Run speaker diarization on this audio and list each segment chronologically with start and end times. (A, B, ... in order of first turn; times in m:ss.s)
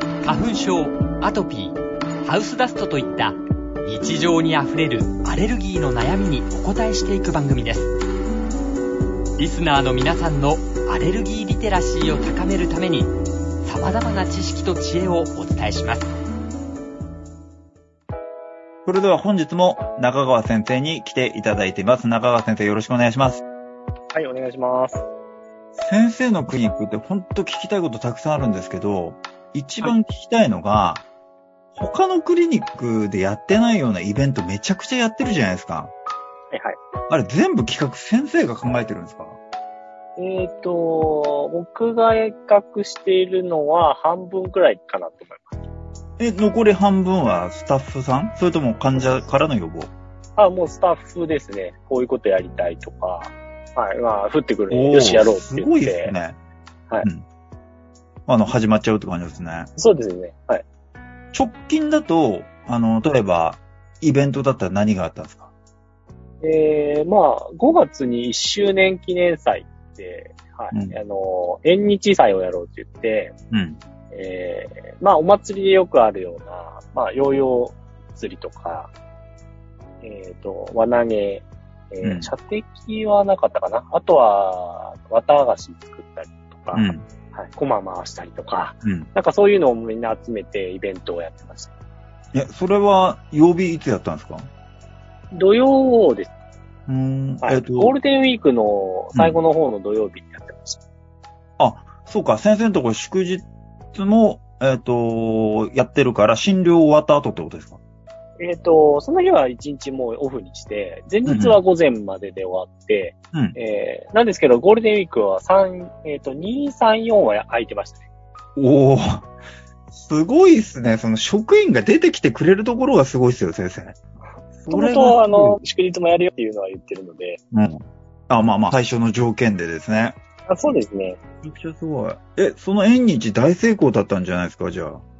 0:00.2-0:07.9 A
0:09.4-0:13.1 A
0:13.6-0:16.1 A
0:18.8-0:23.4 B
0:24.1-0:25.1 C
0:25.8-0:31.0 B
0:31.7-0:35.9 B
0:36.5-0:36.8 C
0:37.1-0:39.4 B
0:40.2-0:45.6 C
0:46.2-0:49.9 B
0:50.4-0:56.1 C
0:54.7-0:56.4 B
0:58.3-0:59.7 B
0:59.8-1:00.6 C
1:01.3-1:05.5 B
1:06.4-1:13.3 C
1:13.5-1:13.8 B
1:14.1-1:18.9 C
1:20.0-1:31.7 C
1:22.0-1:22.3 B
1:26.7-1:27.0 B
1:32.3-1:34.5 B
1:35.3-1:36.3 C
1:36.9-1:38.0 B
1:37.4-1:40.8 C
1:39.1-1:39.4 B
1:41.6-1:47.8 B
1:48.4-1:58.0 C
1:51.2-1:51.6 B
1:58.6-1:59.3 B
1:59.9-2:04.0 B
2:04.6-2:05.6 B
2:04.7-2:07.4 C
2:07.5-2:10.2 B
2:10.5-2:11.2 C
2:11.4-2:15.0 B